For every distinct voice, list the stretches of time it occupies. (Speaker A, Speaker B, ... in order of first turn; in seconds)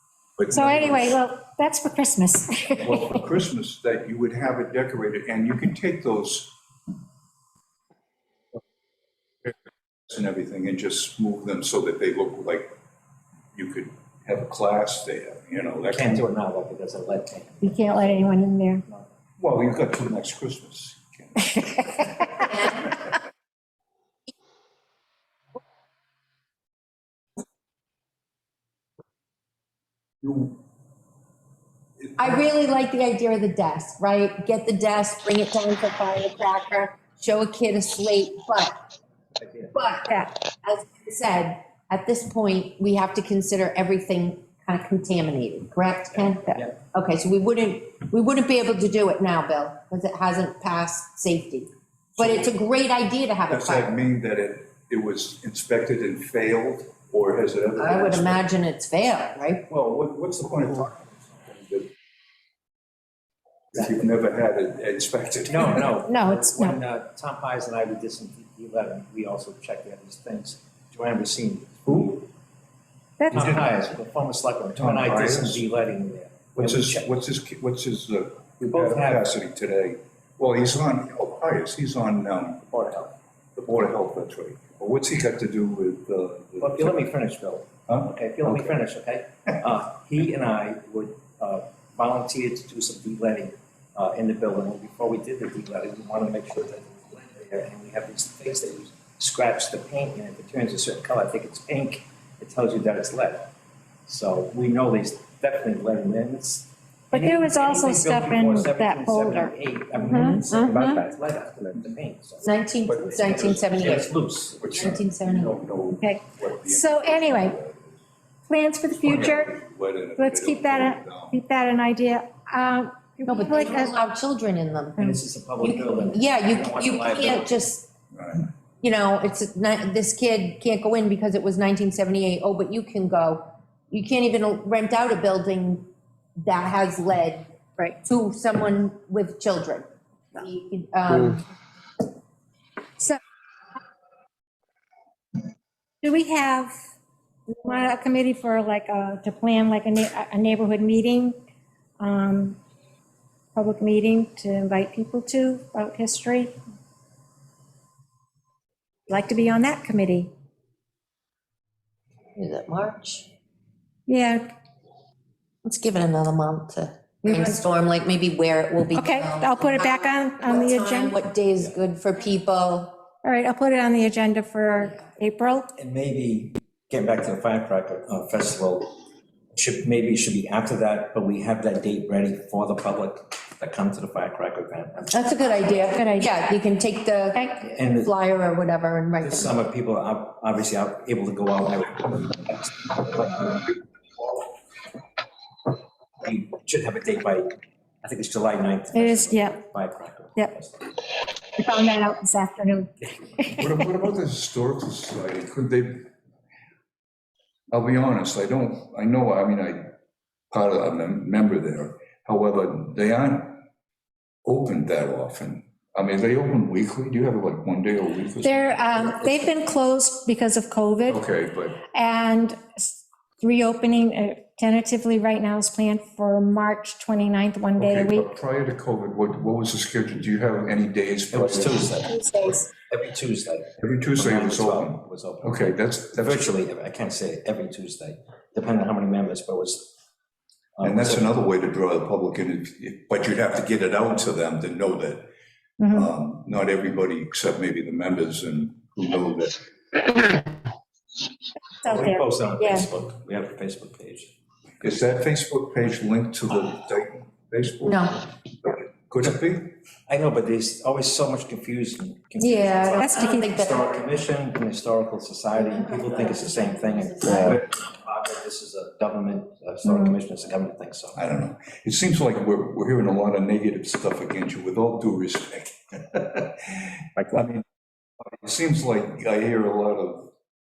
Speaker A: 0.4-1.2, 2.8-6.5, 10.1-12.7, 13.5-16.2, 19.4-22.2, 30.2-30.6, 32.0-32.5, 52.2-52.5, 53.5-58.5, 59.7-61.9, 63.7-65.9, 73.3-73.8, 74.8-75.6, 76.6-82.6, 83.6-87.1, 87.9-88.8, 113.2-114.1, 114.6-118.0, 118.9-121.4, 128.1-128.5, 203.6-206.1, 207.7-209.9, 210.5-213.6, 214.4-218.7, 221.1-221.8, 227.8-231.9, 233.8-236.5, 240.8-245.3, 245.9-250.1, 254.8-259.7, 271.2-277.6, 278.4-280.3
Speaker B: 0.5-3.2, 17.6-18.8, 21.5-22.5, 73.2-73.6, 107.1-110.5, 116.0-117.6, 118.5-119.5, 120.2-124.0, 146.0-146.8, 147.5-151.4, 152.0-152.6, 153.6-156.5, 159.1-160.3, 164.1-164.4, 167.2-167.6, 168.9-171.2, 173.2-175.7, 198.9-199.6, 201.6-203.8, 218.4-221.2, 221.9-228.3, 232.1-232.7, 245.8-246.1, 251.8-252.9, 263.0-263.5, 269.9-270.2
Speaker C: 0.6-0.9, 15.8-19.1, 39.4-39.8, 46.1-46.8, 63.8-64.2, 65.5-72.3, 73.3-77.1, 78.6-79.3, 82.7-83.2, 86.6-103.5, 104.1-115.0, 125.0-127.7, 175.8-179.0, 179.6-185.7, 187.6-188.1, 189.2-193.8, 196.2-200.9, 231.3-240.0, 240.8-241.3, 251.8-254.3, 260.1-271.2
Speaker D: 22.4-23.0, 32.2-38.7, 39.7-53.9, 57.8-59.7, 66.0-66.8, 110.5-111.0, 112.4-114.1, 114.7-115.6, 123.3-125.0, 125.6-127.9, 128.8-137.5, 138.0-141.4, 162.3-163.3, 165.7-173.0, 185.1-189.6, 257.9-258.2, 262.4-264.0, 265.6-267.5